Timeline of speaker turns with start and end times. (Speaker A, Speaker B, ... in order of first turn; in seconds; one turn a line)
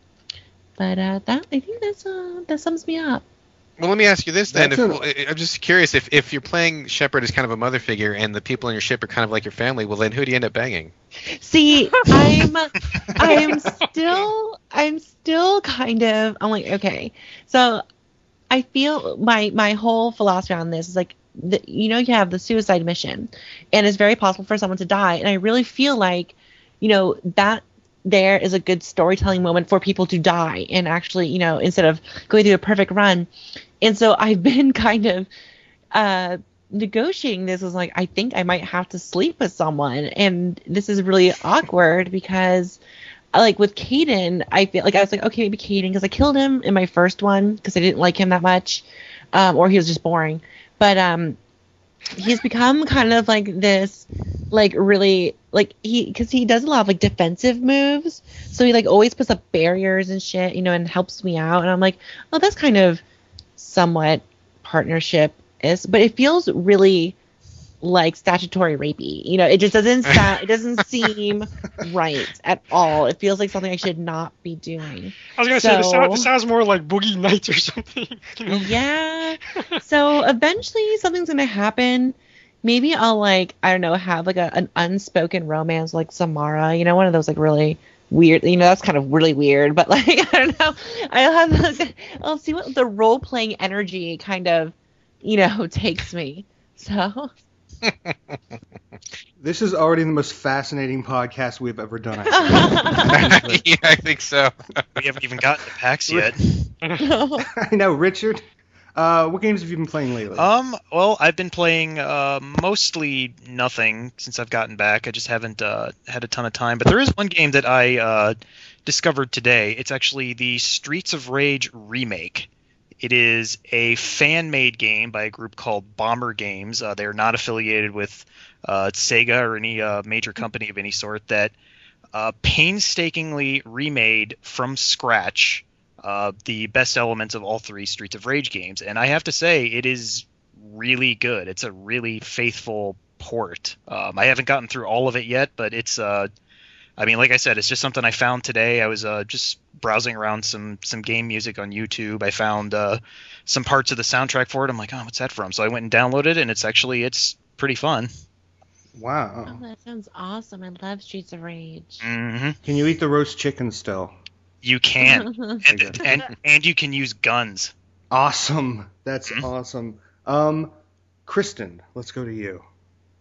Speaker A: 0.8-3.2
Speaker B: 3.8-10.9
Speaker C: 4.5-5.0
Speaker A: 11.3-17.8
Speaker A: 18.5-33.3
Speaker A: 33.8-35.3
Speaker A: 35.9-42.8
Speaker A: 43.3-51.4
Speaker A: 52.1-63.0
Speaker A: 63.6-67.2
Speaker A: 67.8-76.3
Speaker D: 75.3-78.8
Speaker A: 78.5-97.3
Speaker C: 99.4-103.4
Speaker A: 102.3-103.5
Speaker B: 103.0-104.8
Speaker E: 105.0-106.7
Speaker D: 106.8-107.1
Speaker A: 107.0-107.5
Speaker C: 107.5-108.4
Speaker C: 109.0-110.5
Speaker E: 110.3-122.5
Speaker E: 123.0-131.5
Speaker E: 132.1-146.3
Speaker E: 147.0-158.1
Speaker C: 158.9-159.6
Speaker A: 159.5-162.0
Speaker E: 162.0-162.6
Speaker C: 162.6-164.1
Speaker E: 164.6-167.7
Speaker A: 165.0-165.6
Speaker C: 165.7-166.2
Speaker C: 168.1-170.7
Speaker C: 171.2-172.6